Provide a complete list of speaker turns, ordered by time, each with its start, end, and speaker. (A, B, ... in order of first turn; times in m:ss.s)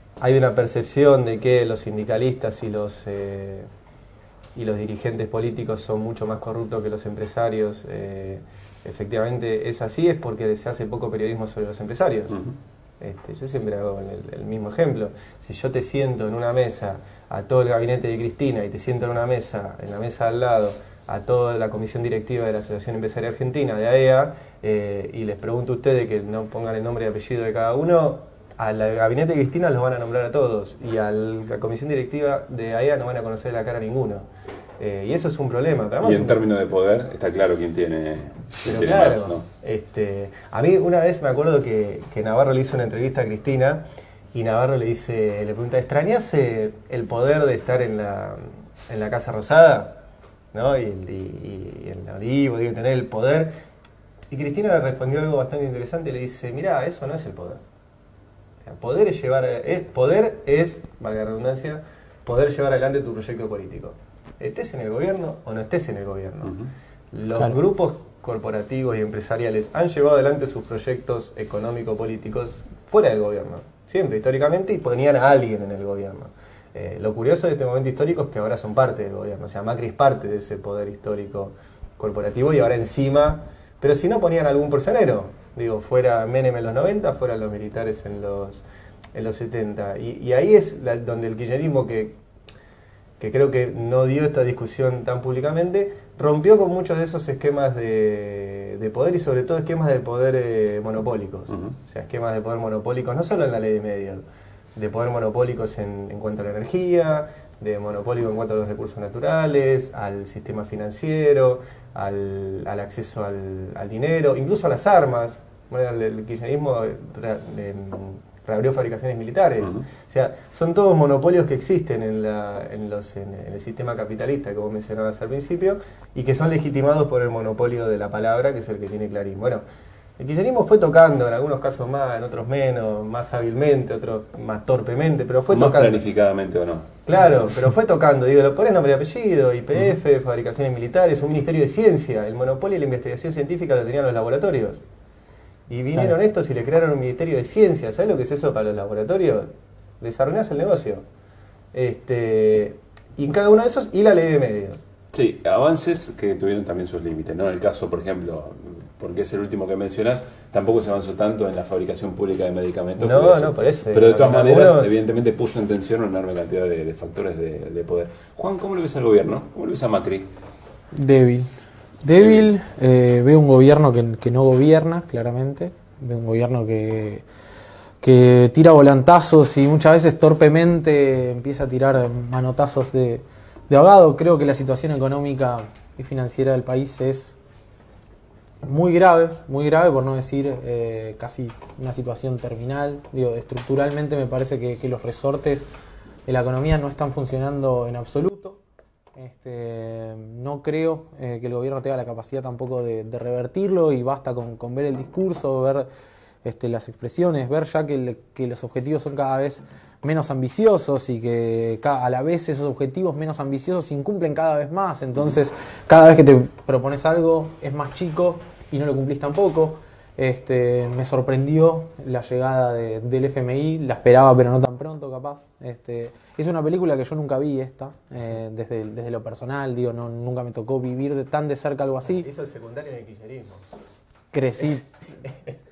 0:00.2-0:03.7 A
0:04.6-0:12.4 A
0:12.3-0:12.6 B
0:13.0-0:34.2 A
0:34.8-0:36.4 A
0:36.0-0:39.4 B
0:38.6-0:50.0 A
0:50.5-0:53.5 A
0:54.3-0:57.6 A
0:58.6-1:06.6 A
1:06.4-1:06.7 B
1:07.1-1:32.2 A
1:33.2-1:44.2 A
1:41.5-1:41.8 B
1:44.8-2:09.6 A
2:10.2-2:16.0 A
2:15.5-2:16.9 B
2:17.0-2:24.8 A
2:25.7-2:29.5 A
2:30.0-2:31.0 A
2:31.7-2:34.8 A
2:35.1-2:50.3 B
2:43.0-2:45.0 A
2:50.9-2:51.5 C
2:52.0-2:57.2 C
2:52.2-2:52.5 B
2:58.0-3:07.4 C
3:08.6-3:15.7 C
3:16.2-3:18.6 C
3:19.1-3:25.9 C
3:26.4-3:52.2 C
3:52.0-3:53.6 A
3:54.3-3:54.8 C
3:54.6-3:55.5 A